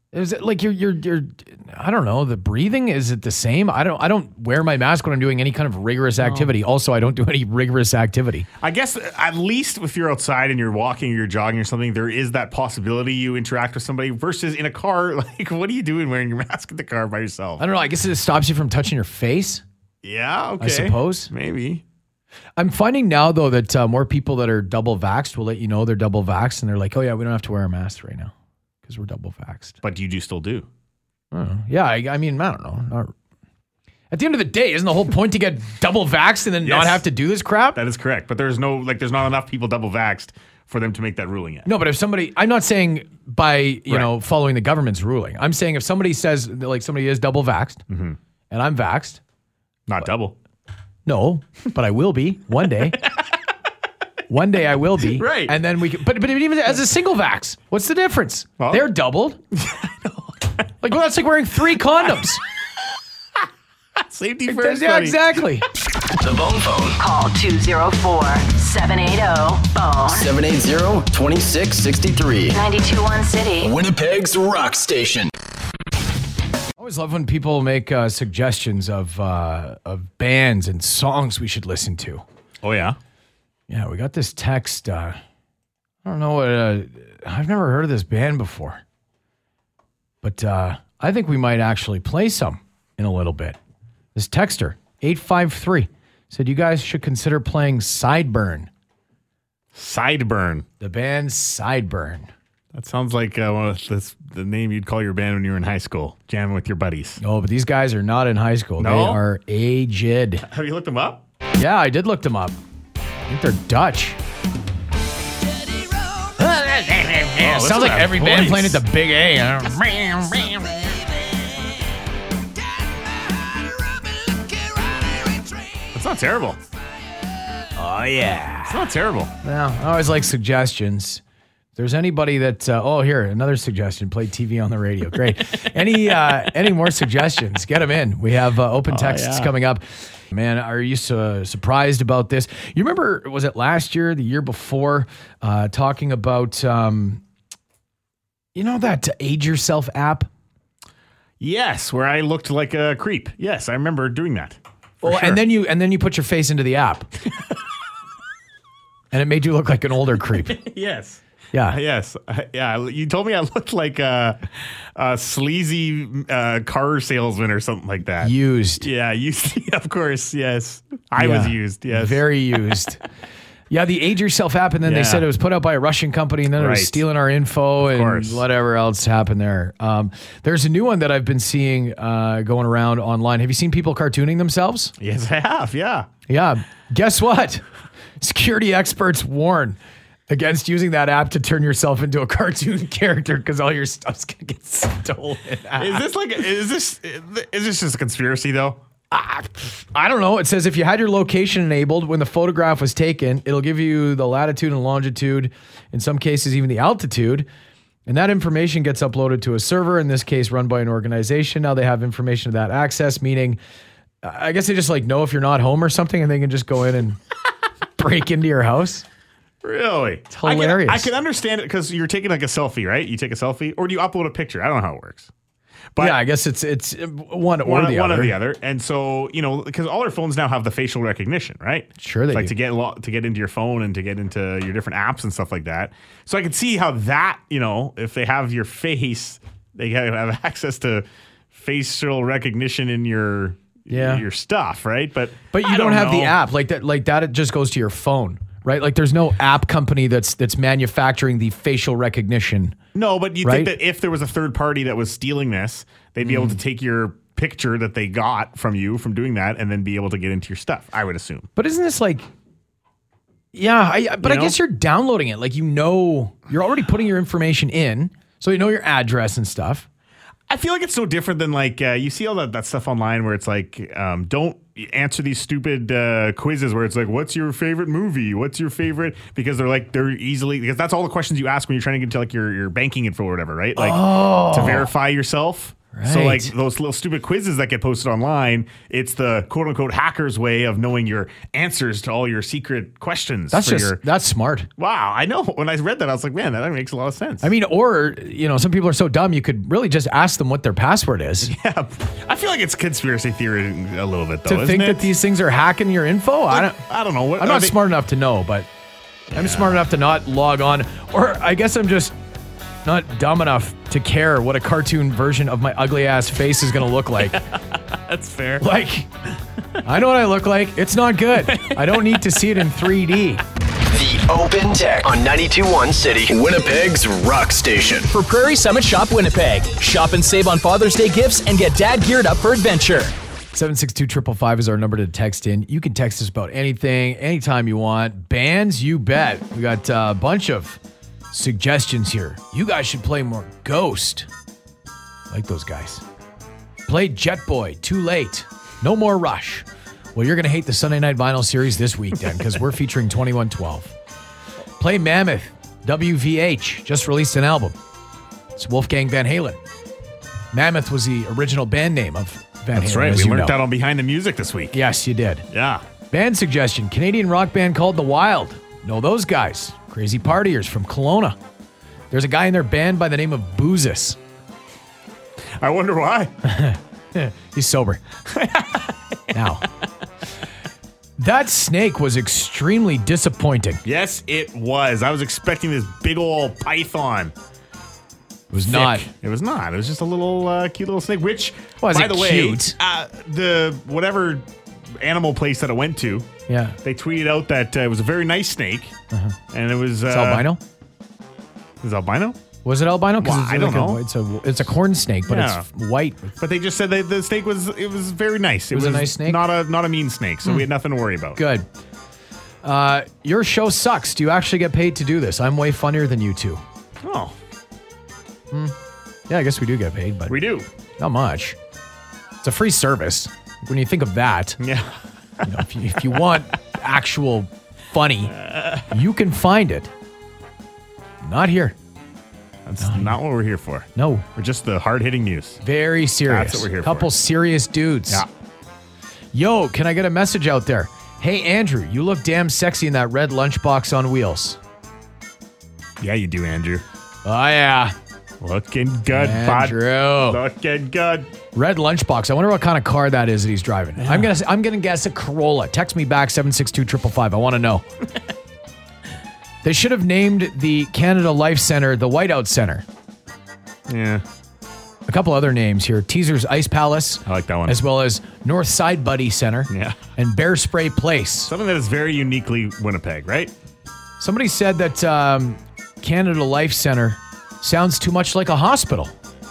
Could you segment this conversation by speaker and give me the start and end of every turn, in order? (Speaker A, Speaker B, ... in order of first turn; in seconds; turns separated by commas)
Speaker A: 0.1-8.5, Speaker B: 6.2-6.5, Speaker B: 8.6-17.6, Speaker A: 17.6-19.6, Speaker B: 20.0-21.8, Speaker A: 20.6-21.3, Speaker A: 22.6-28.3, Speaker A: 28.9-29.8, Speaker B: 29.8-30.7, Speaker A: 31.3-33.1, Speaker A: 34.1-37.8, Speaker B: 36.6-37.0, Speaker B: 37.7-41.7, Speaker A: 41.6-47.8, Speaker B: 47.9-48.2, Speaker A: 48.5-49.2, Speaker B: 49.9-50.3, Speaker A: 51.0-53.0, Speaker A: 54.3-59.4, Speaker B: 55.1-55.5, Speaker B: 58.6-58.8, Speaker B: 59.6-60.3, Speaker A: 60.8-62.4, Speaker B: 64.0-65.3, Speaker A: 64.5-65.7, Speaker C: 66.2-67.0, Speaker D: 67.0-70.3, Speaker C: 70.1-72.6, Speaker D: 72.5-73.7, Speaker C: 73.6-75.3, Speaker A: 76.8-82.2, Speaker B: 82.6-83.0, Speaker A: 83.7-85.2, Speaker A: 86.0-88.8, Speaker A: 90.2-93.6, Speaker A: 94.1-98.7, Speaker B: 99.7-100.7, Speaker A: 100.8-102.3, Speaker B: 102.7-107.2, Speaker A: 107.2-110.4, Speaker B: 108.8-109.2, Speaker B: 110.5-111.2, Speaker A: 111.6-112.5, Speaker A: 113.3-114.2, Speaker A: 116.4-120.8, Speaker B: 117.4-118.8, Speaker B: 125.9-126.6, Speaker A: 127.8-128.8, Speaker B: 128.7-129.3, Speaker A: 129.4-131.2, Speaker A: 131.8-147.2, Speaker B: 138.9-139.5, Speaker A: 148.5-150.3, Speaker B: 151.4-155.4, Speaker A: 155.0-157.1, Speaker A: 159.1-160.6, Speaker B: 160.4-164.4, Speaker A: 161.5-161.8, Speaker B: 164.9-172.2, Speaker A: 168.2-168.9, Speaker A: 171.2-173.0, Speaker A: 173.7-184.9, Speaker B: 174.8-175.3, Speaker B: 176.6-177.0, Speaker B: 177.8-178.4, Speaker B: 185.0-186.1, Speaker A: 186.3-187.6, Speaker A: 188.2-189.8, Speaker A: 190.3-196.0, Speaker B: 195.8-198.8, Speaker A: 199.1-207.5, Speaker A: 208.1-213.6, Speaker A: 214.2-217.2, Speaker A: 218.0-219.0, Speaker B: 219.6-225.3, Speaker A: 220.3-221.1, Speaker A: 226.0-228.3, Speaker B: 227.6-246.4, Speaker A: 232.0-232.5, Speaker A: 243.9-244.2, Speaker A: 245.5-252.8, Speaker B: 252.9-261.5, Speaker A: 253.4-253.7, Speaker A: 256.2-256.6, Speaker A: 261.6-262.2, Speaker A: 263.5-269.9, Speaker B: 264.2-264.6, Speaker B: 270.5-294.0, Speaker A: 283.8-284.9, Speaker A: 285.9-286.5, Speaker A: 293.5-294.7, Speaker B: 294.8-297.5, Speaker A: 297.4-301.5, Speaker B: 301.4-305.1, Speaker A: 304.4-306.8, Speaker B: 306.5-307.8, Speaker A: 307.4-308.7, Speaker B: 309.3-309.8, Speaker A: 309.3-312.1, Speaker A: 312.8-317.4, Speaker B: 317.9-318.6, Speaker A: 318.6-319.1, Speaker A: 319.8-323.4, Speaker B: 321.5-322.1, Speaker C: 323.9-328.2, Speaker E: 328.1-333.1, Speaker A: 333.5-340.8, Speaker A: 341.3-344.3, Speaker A: 345.3-346.0, Speaker A: 346.9-353.9, Speaker A: 354.8-357.8, Speaker A: 358.6-359.6, Speaker A: 360.5-363.6, Speaker B: 362.7-364.8, Speaker A: 364.7-365.4, Speaker B: 365.5-365.8, Speaker A: 366.1-371.4, Speaker A: 372.1-374.2, Speaker B: 375.6-376.3, Speaker A: 376.4-378.0, Speaker B: 378.3-378.9, Speaker A: 379.3-379.6, Speaker A: 381.2-383.8, Speaker B: 383.8-387.3, Speaker A: 388.5-389.1, Speaker B: 388.6-394.4, Speaker A: 391.8-392.8, Speaker B: 395.0-396.3, Speaker A: 396.5-396.8, Speaker B: 396.8-398.9, Speaker B: 399.5-400.5, Speaker A: 400.1-400.6, Speaker B: 401.8-402.4, Speaker A: 402.6-406.3, Speaker B: 403.2-404.0, Speaker B: 405.3-405.6, Speaker B: 406.4-411.4, Speaker A: 408.7-409.4, Speaker A: 411.4-411.6, Speaker A: 412.6-416.6, Speaker B: 417.0-417.3, Speaker A: 419.3-420.4, Speaker B: 420.3-420.7, Speaker A: 421.0-421.6, Speaker A: 422.4-424.6, Speaker B: 424.6-425.4, Speaker A: 425.4-428.3, Speaker B: 428.3-428.9, Speaker A: 428.9-429.9, Speaker A: 431.2-431.8, Speaker B: 432.6-435.6, Speaker A: 432.8-433.2, Speaker A: 433.9-434.2, Speaker A: 435.6-438.2, Speaker B: 436.3-437.1, Speaker A: 439.3-444.6, Speaker B: 446.0-446.8, Speaker A: 447.2-447.9, Speaker B: 448.4-451.3, Speaker A: 449.1-450.4, Speaker A: 451.5-457.8, Speaker B: 454.0-454.3, Speaker A: 459.6-462.8, Speaker B: 463.9-464.2, Speaker A: 465.1-471.5, Speaker B: 467.2-467.8, Speaker B: 469.7-470.0, Speaker B: 471.5-473.5, Speaker A: 474.2-479.1